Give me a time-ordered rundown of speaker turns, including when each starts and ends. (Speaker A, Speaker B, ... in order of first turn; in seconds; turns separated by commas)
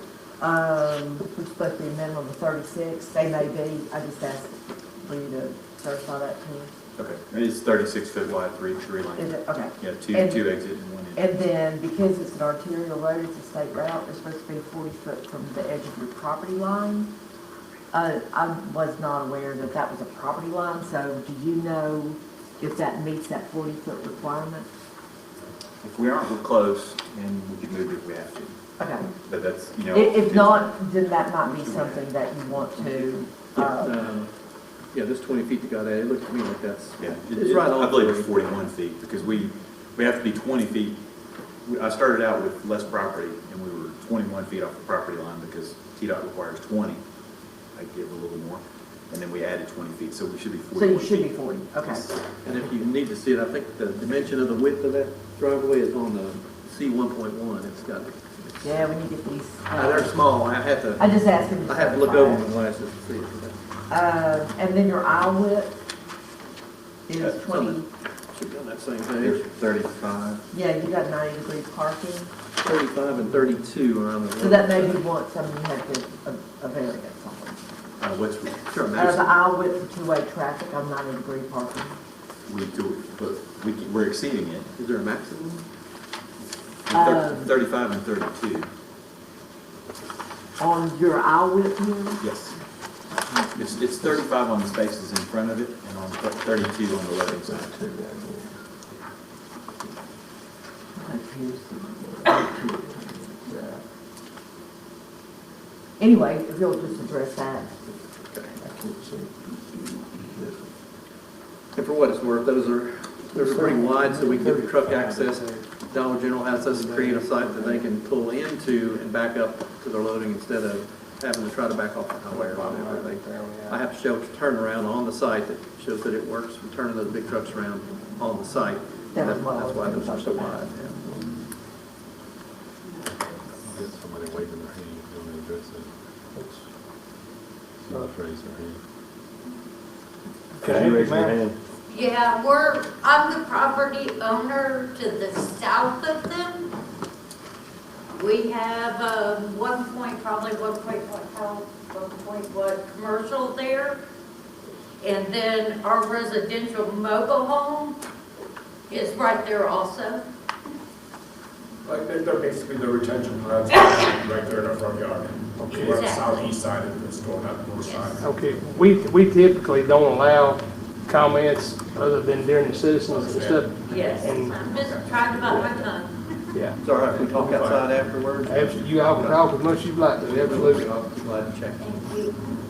Speaker A: 0.4-6.7, Speaker B: 7.0-11.2, Speaker A: 9.2-10.5, Speaker A: 11.1-17.1, Speaker A: 17.9-24.7, Speaker B: 25.8-28.6, Speaker A: 28.8-29.1, Speaker B: 29.2-30.6, Speaker A: 29.9-33.9, Speaker B: 31.4-32.0, Speaker C: 33.5-34.3, Speaker C: 34.9-38.3, Speaker B: 37.0-41.0, Speaker B: 41.6-47.0, Speaker B: 47.7-52.1, Speaker A: 50.7-52.0, Speaker C: 52.4-58.9, Speaker A: 58.6-60.2, Speaker C: 59.7-63.5, Speaker A: 61.0-62.5, Speaker A: 63.9-65.7, Speaker A: 67.1-67.9, Speaker B: 67.2-67.8, Speaker C: 68.3-69.4, Speaker B: 69.2-70.4, Speaker A: 70.5-72.3, Speaker C: 72.6-75.0, Speaker A: 74.4-77.6, Speaker B: 78.0-78.6, Speaker C: 78.7-79.3, Speaker A: 78.9-82.0, Speaker B: 82.5-84.7, Speaker C: 84.8-85.6, Speaker B: 86.9-88.7, Speaker A: 86.9-87.5, Speaker A: 90.6-92.2, Speaker B: 92.2-92.5, Speaker B: 93.5-97.7, Speaker D: 97.7-98.5, Speaker A: 101.0-103.8, Speaker A: 106.0-107.7, Speaker D: 108.6-109.3, Speaker D: 110.2-110.7, Speaker C: 111.7-131.0, Speaker D: 113.4-115.6, Speaker D: 116.5-117.8, Speaker D: 122.3-123.8, Speaker A: 129.1-130.7, Speaker E: 133.6-135.9, Speaker D: 136.3-136.6, Speaker E: 137.8-138.8, Speaker D: 140.6-141.4, Speaker E: 140.6-141.6, Speaker F: 141.9-146.7, Speaker F: 148.1-154.0, Speaker F: 155.0-158.0, Speaker F: 158.9-160.2, Speaker G: 161.8-168.2, Speaker D: 165.6-166.0, Speaker F: 165.7-166.5, Speaker F: 167.8-168.2, Speaker D: 168.2-174.6, Speaker G: 173.0-175.9, Speaker F: 173.8-176.5, Speaker D: 176.5-177.4, Speaker C: 176.8-179.5, Speaker G: 177.3-178.0, Speaker D: 178.4-180.9, Speaker C: 180.2-181.9, Speaker F: 181.8-182.3